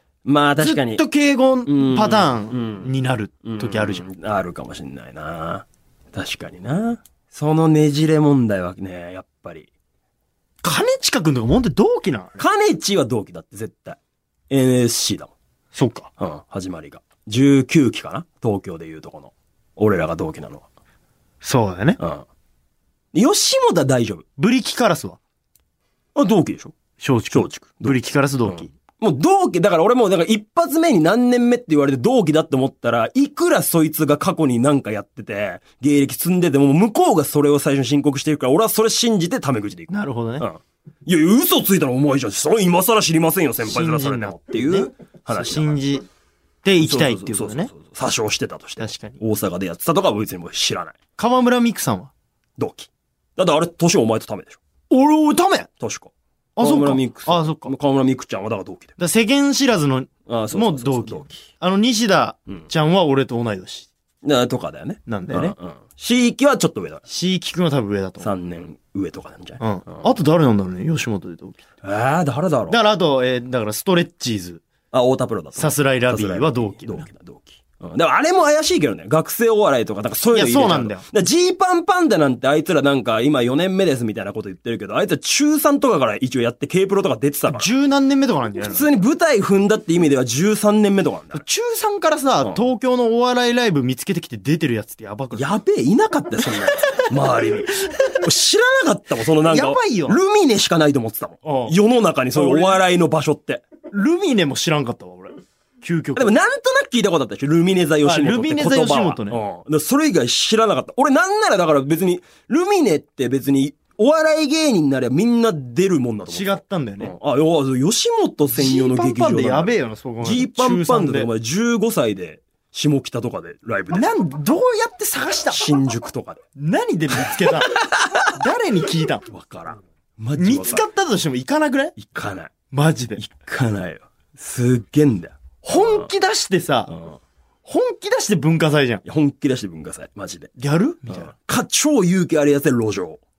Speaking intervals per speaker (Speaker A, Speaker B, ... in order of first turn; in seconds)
Speaker A: 0.2-1.0, 1.7-2.9, 3.5-9.7, 12.4-14.0, 14.5-15.3, 16.2-20.6, 22.0-22.3, 23.1-24.2, 26.1-26.8, 27.3-45.8, 46.8-51.0, 52.6-54.6, 55.8-58.9, 60.3-61.4, 64.2-67.0, 68.2-70.0, 71.8-72.8, 74.9-87.7, 88.6-91.4, 95.3-103.6, 106.2-124.1, 125.5-126.4, 127.1-128.3, 129.3-130.9, 132.0-132.5, 133.2-136.1, 136.9-137.2, 139.1-140.5, 141.1-143.2
Speaker B: 0.6-4.1, 10.6-12.4, 15.7-16.1, 21.4-22.0, 24.4-25.2, 27.0-28.7, 39.9-40.5, 43.6-46.0, 46.6-47.7, 48.8-49.2, 51.2-52.1, 54.9-55.7, 56.6-57.7, 59.0-63.9, 65.1-65.5, 67.1-68.3, 69.6-71.6, 72.7-74.6, 75.5-77.1, 80.3-81.0, 87.5-88.9, 91.3-95.5, 96.5-98.1, 99.4-100.2, 101.4-101.8, 102.3-102.8, 103.9-106.3, 108.0-109.4, 116.3-117.2, 118.5-121.3, 123.9-125.7, 126.6-127.7, 128.3-129.3, 130.4-132.0, 132.7-133.2, 135.6-136.9, 137.7-139.0, 140.6-141.3